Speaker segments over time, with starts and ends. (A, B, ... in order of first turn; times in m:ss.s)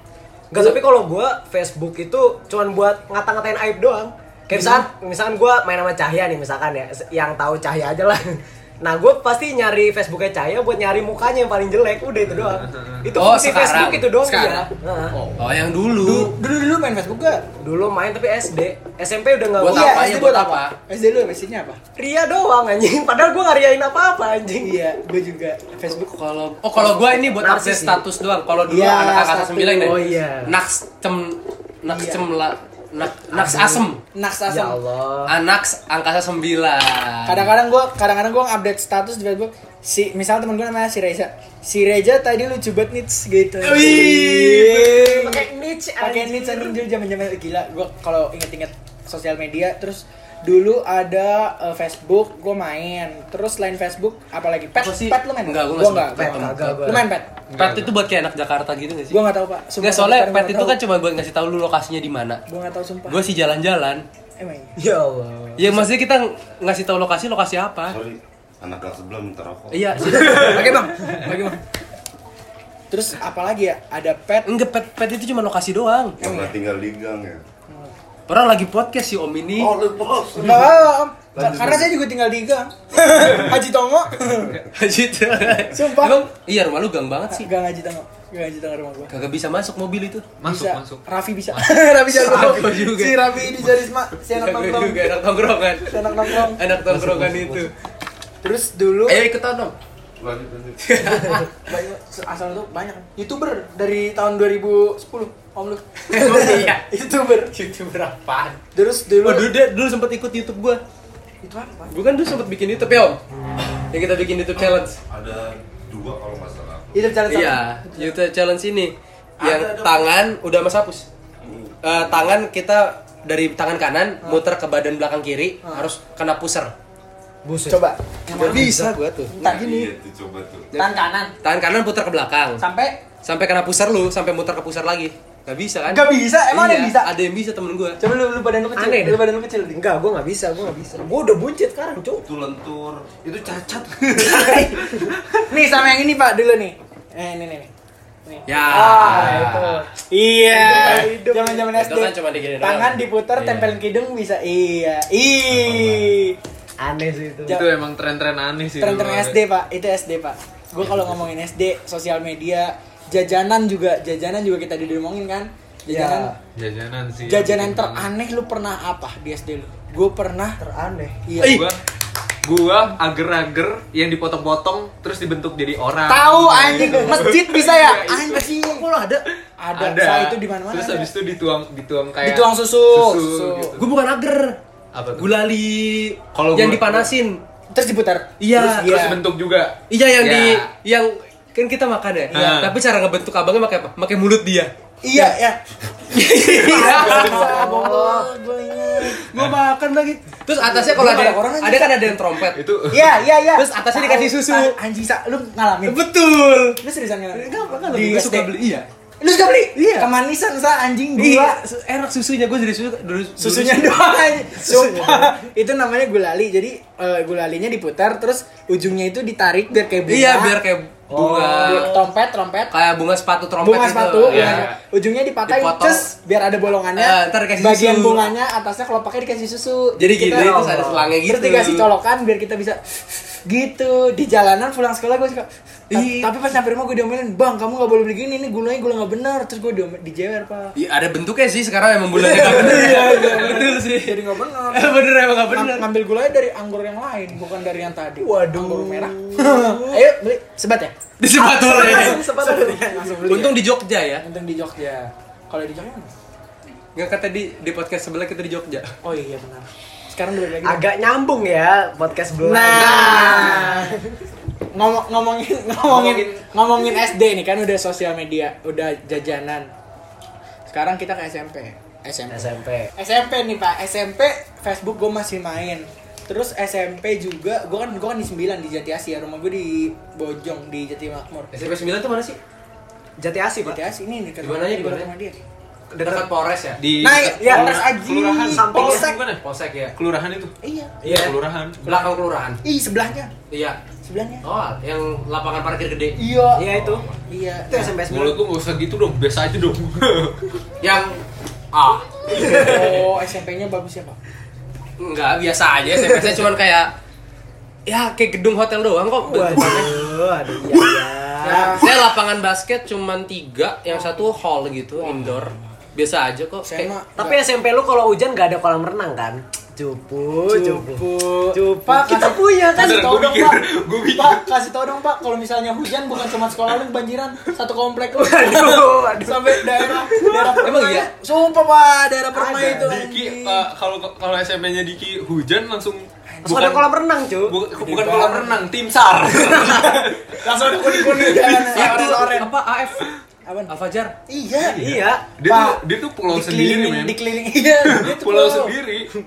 0:00.5-0:15.2 A
0:00.5-0:00.8 B
0:04.5-0:04.8 B
0:12.3-0:13.1 C
0:13.2-0:14.1 B
0:14.2-0:15.4 D
0:15.4-0:16.3 B
0:16.0-0:17.4 D
0:17.6-0:20.1 A
0:19.6-0:20.8 B
0:19.6-0:21.8 D
0:22.0-0:24.8 A
0:24.6-0:26.0 D
0:25.9-0:34.0 B
0:26.9-0:28.0 A
0:28.7-0:30.2 D
0:29.8-0:30.6 A
0:31.9-0:32.2 D
0:33.3-0:33.9 A
0:34.1-0:34.8 D
0:34.5-0:35.3 A
0:35.3-0:37.5 B
0:37.3-0:45.5 D
0:43.6-0:45.4 B
0:45.0-0:46.8 A
0:46.0-0:57.3 D
0:54.8-0:59.2 B
0:56.1-0:57.0 A
0:57.5-0:57.9 C
0:59.1-1:00.8 D
0:59.8-1:02.4 B
1:02.5-1:03.4 D
1:03.1-1:04.0 B
1:04.4-1:04.8 D
1:04.8-1:05.8 A
1:05.6-1:08.0 B
1:07.8-1:10.4 E
1:09.7-1:10.9 B
1:10.1-1:10.7 C
1:10.1-1:11.6 D
1:12.9-1:14.5 D
1:14.4-1:16.2 B
1:16.2-1:17.4 E
1:16.2-1:16.6 D
1:17.7-1:17.9 D
1:18.3-1:19.7 B
1:19.6-1:20.8 E
1:20.4-1:24.5 D
1:21.3-1:21.9 E
1:24.7-1:27.5 B
1:25.7-1:26.2 D
1:27.3-1:29.1 D
1:29.1-1:30.3 B
1:30.4-1:31.7 C
1:30.4-1:35.2 D
1:32.1-1:33.6 B
1:34.3-1:37.7 B
1:35.8-1:36.6 D
1:36.9-1:37.6 E
1:38.4-1:39.2 D
1:39.1-1:39.8 B
1:40.2-1:41.2 E
1:40.8-1:41.5 B
1:41.4-1:47.5 D
1:46.1-1:46.9 B
1:47.5-1:48.6 B
1:48.7-1:49.5 D
1:49.2-1:50.8 B
1:51.4-1:52.0 D
1:51.9-1:53.2 B
1:53.9-1:55.0 B
1:55.1-1:57.2 E
1:56.9-1:58.2 D
1:57.3-2:01.1 B
1:59.4-2:00.1 E
2:01.4-2:02.3 E
2:01.8-2:06.7 B
2:05.6-2:05.9 D
2:07.4-2:08.9 A
2:07.7-2:08.8 D
2:08.3-2:09.4 B
2:09.3-2:09.9 D
2:09.4-2:10.8 E
2:10.7-2:11.3 D
2:11.4-2:12.6 B
2:12.6-2:13.0 D
2:13.2-2:18.0 B
2:15.9-2:17.1 D
2:18.0-2:19.8 D
2:18.8-2:22.2 A
2:22.2-2:24.0 E
2:23.5-2:25.5 C
2:24.2-2:24.9 D
2:25.5-2:27.7 D
2:28.3-2:29.4 D
2:28.5-2:29.8 B
2:28.7-2:29.9 A
2:30.1-2:36.4 D
2:30.5-2:31.7 A
2:31.7-2:33.8 B
2:35.7-2:36.0 E
2:36.8-2:37.6 A
2:37.5-2:39.4 C
2:38.8-2:46.3 D
2:45.9-2:46.4 A
2:46.6-2:48.1 C
2:47.3-2:50.6 D
2:50.6-2:51.2 A
2:51.3-2:51.6 D
2:51.4-2:51.7 B
2:51.4-2:51.8 C
2:52.4-2:58.5 C
2:56.1-2:58.9 D
2:56.7-2:57.2 A
2:58.7-2:59.2 B
2:59.6-3:01.1 D
2:59.8-3:03.8 C
3:02.2-3:03.8 D
3:03.8-3:04.6 B
3:04.9-3:05.3 C
3:05.2-3:07.4 B
3:06.4-3:07.1 C
3:07.7-3:09.2 D
3:08.4-3:09.1 B
3:08.6-3:10.7 C
3:09.9-3:15.3 B
3:12.3-3:12.7 C
3:15.0-3:15.6 D
3:16.1-3:18.2 B
3:16.4-3:19.3 D
3:16.6-3:17.6 C
3:17.2-3:18.2 A
3:19.0-3:22.6 B
3:20.6-3:22.2 D
3:22.6-3:23.2 C
3:22.9-3:26.0 D
3:23.6-3:24.8 B
3:25.8-3:26.8 B
3:26.8-3:28.5 D
3:27.3-3:28.9 B
3:29.2-3:31.6 D
3:29.8-3:30.1 B
3:31.2-3:34.0 B
3:33.4-3:40.6 D
3:34.7-3:35.3 A
3:40.1-3:42.1 B
3:41.1-3:42.0 A
3:41.2-3:42.7 D
3:42.7-3:44.7 B
3:43.6-3:50.6 D
3:44.3-3:44.8 C
3:45.5-3:46.0 B
3:47.0-3:48.3 B
3:50.0-3:51.9 B
3:50.2-3:51.1 A
3:51.2-3:52.8 D
3:53.5-4:00.8 D
3:55.9-3:56.3 B
4:00.8-4:05.9 B
4:02.3-4:13.6 D
4:02.3-4:03.1 A
4:08.2-4:10.0 A
4:11.2-4:12.2 B
4:11.4-4:13.4 A
4:13.2-4:14.2 B
4:14.2-4:16.1 D
4:17.0-4:18.9 B
4:19.0-4:20.8 D
4:20.6-4:24.2 A
4:22.4-4:24.0 D
4:24.7-4:29.7 D
4:25.8-4:26.4 C
4:30.7-4:41.5 D
4:32.3-4:32.9 A
4:41.5-4:42.4 B
4:43.2-4:43.8 A
4:43.6-4:45.4 D
4:44.4-4:45.1 B
4:45.9-4:46.3 A
4:46.0-4:46.8 B
4:46.8-4:49.4 C
4:47.0-4:49.2 D
4:47.3-4:47.7 A
4:48.4-4:49.1 A
4:49.4-4:50.0 B
4:50.0-4:50.6 C
4:50.6-4:51.2 D
4:51.0-4:51.4 A
4:51.1-4:52.0 C
4:51.8-4:52.6 B
4:51.9-4:53.3 D
4:53.5-4:53.8 B
4:54.0-4:54.4 D
4:54.4-4:56.2 B
4:56.2-4:58.0 D
4:56.5-4:57.0 A
4:57.7-4:58.4 A
4:58.0-5:00.4 C
5:00.8-5:01.2 B
5:01.7-5:02.9 B
5:02.3-5:02.9 A
5:02.5-5:04.2 D
5:05.0-5:06.9 B
5:07.9-5:10.0 B
5:09.2-5:11.8 A
5:11.4-5:12.0 D
5:11.8-5:16.9 B
5:15.0-5:15.7 D
5:16.6-5:17.4 D
5:17.2-5:23.0 A
5:20.5-5:33.7 D
5:22.8-5:24.4 C
5:28.1-5:30.6 A
5:30.6-5:31.1 B
5:32.3-5:33.0 A
5:32.6-5:36.8 C
5:36.3-5:36.8 D
5:36.4-5:37.6 A
5:37.5-5:42.2 C
5:37.8-5:38.7 D
5:39.5-5:42.5 D
5:41.3-5:43.1 B
5:43.5-5:43.7 D
5:43.7-5:44.2 B
5:44.3-5:44.8 D
5:44.6-5:47.2 C
5:44.6-5:45.3 A
5:45.4-5:48.7 D
5:47.9-5:49.1 C